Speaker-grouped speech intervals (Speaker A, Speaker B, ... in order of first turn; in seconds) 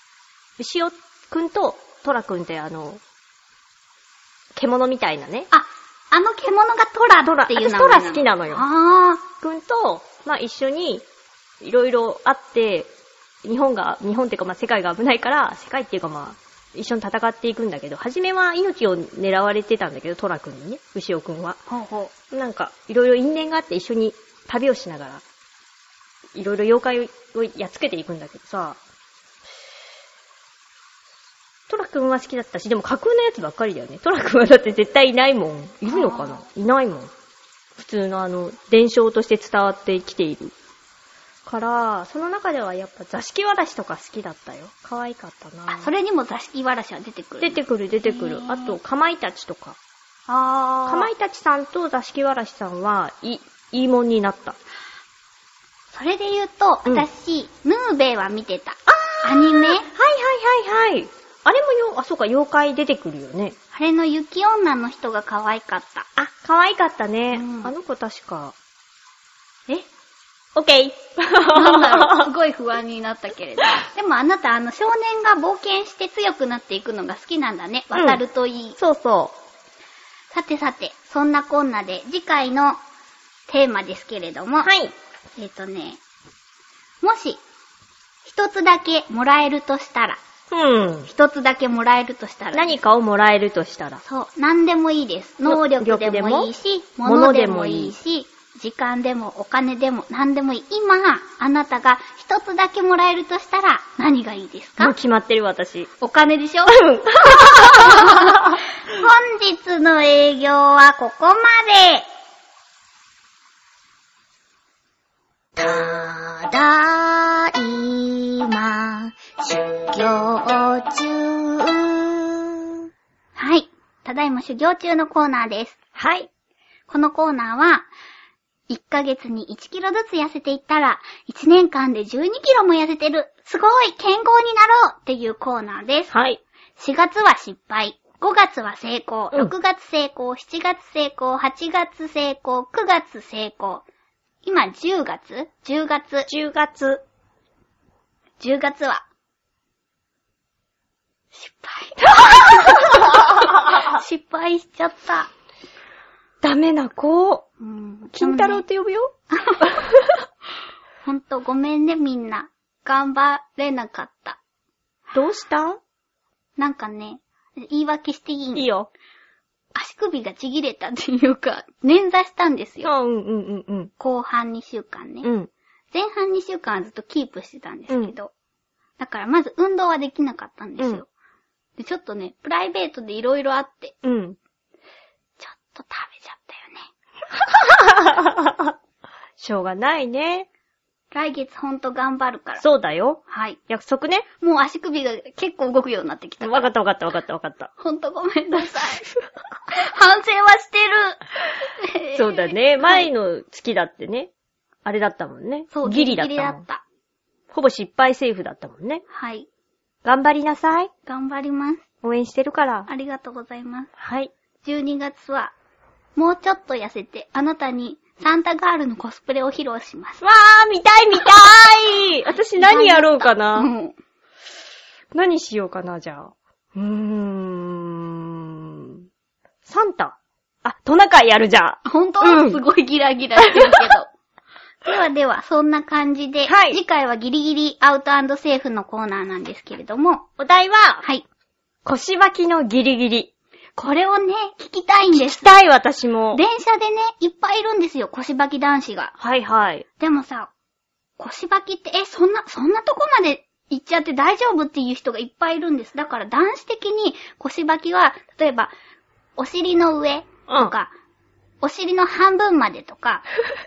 Speaker A: 0.6-3.0, 4.5-5.5, 7.2-8.6, 9.4-11.0, 11.6-12.9, 13.4-21.6, 22.3-25.2, 26.3-28.8, 31.7-37.1, 37.8-40.5, 41.5-45.9, 47.4-49.8, 50.9-54.6, 58.9-63.5, 66.2-68.5, 70.5-72.3, 77.9-78.2, 78.8-79.3, 84.6-84.9, 90.5-91.1, 92.5-94.0, 95.5-96.5, 97.0-97.9, 104.8-105.9, 106.7-108.6, 126.0-126.3, 136.1-136.4, 146.3-147.0, 152.1-153.8, 156.4-157.4, 158.1-160.2, 165.1-165.8, 168.5-168.9, 172.8-173.9, 175.2-175.5, 177.9-178.1, 184.0-184.4, 187.3-188.7, 189.4-190.5, 192.6-194.2, 196.4-197.7, 202.2-204.3, 204.8-206.6, 207.5-209.0, 210.0-210.9, 212.0-212.9, 214.0-214.3, 220.2-223.7, 225.1-229.1, 229.7-232.6, 233.4-233.9, 236.4-236.8, 240.4-241.0, 241.8-243.3, 245.1-246.4, 249.2-249.8, 260.5-260.7
Speaker B: 5.5-9.2, 21.7-22.1, 35.9-36.4, 45.7-48.8, 50.3-51.1, 55.9-59.9, 63.7-66.1, 67.3-67.7, 71.4-78.8, 80.3-82.8, 83.5-84.7, 85.4-86.0, 87.0-87.4, 88.2-90.2, 91.1-92.8, 94.0-104.9, 106.0-112.0, 120.0-120.9, 123.3-125.8, 126.9-127.9, 128.7-136.1, 136.8-143.8, 144.4-146.3, 148.4-149.0, 151.3-155.3, 157.6-158.6, 159.3-159.7, 161.0-164.4, 166.6-168.7, 169.7-172.9, 174.0-175.3, 175.9-178.3, 179.0-181.1, 181.8-184.0, 185.4-186.9, 191.1-192.6, 193.3-193.6, 194.4-196.7, 197.8-199.1, 199.7-203.1, 205.7-206.8, 209.1-209.5, 211.1-211.8, 212.9-213.9, 214.6-215.5, 216.2-220.2, 222.2-223.9, 231.8-234.1, 234.8-240.3, 243.8-245.5, 246.3-249.1, 250.0-250.5, 251.2-258.7, 259.4-260.9, 261.6-263.2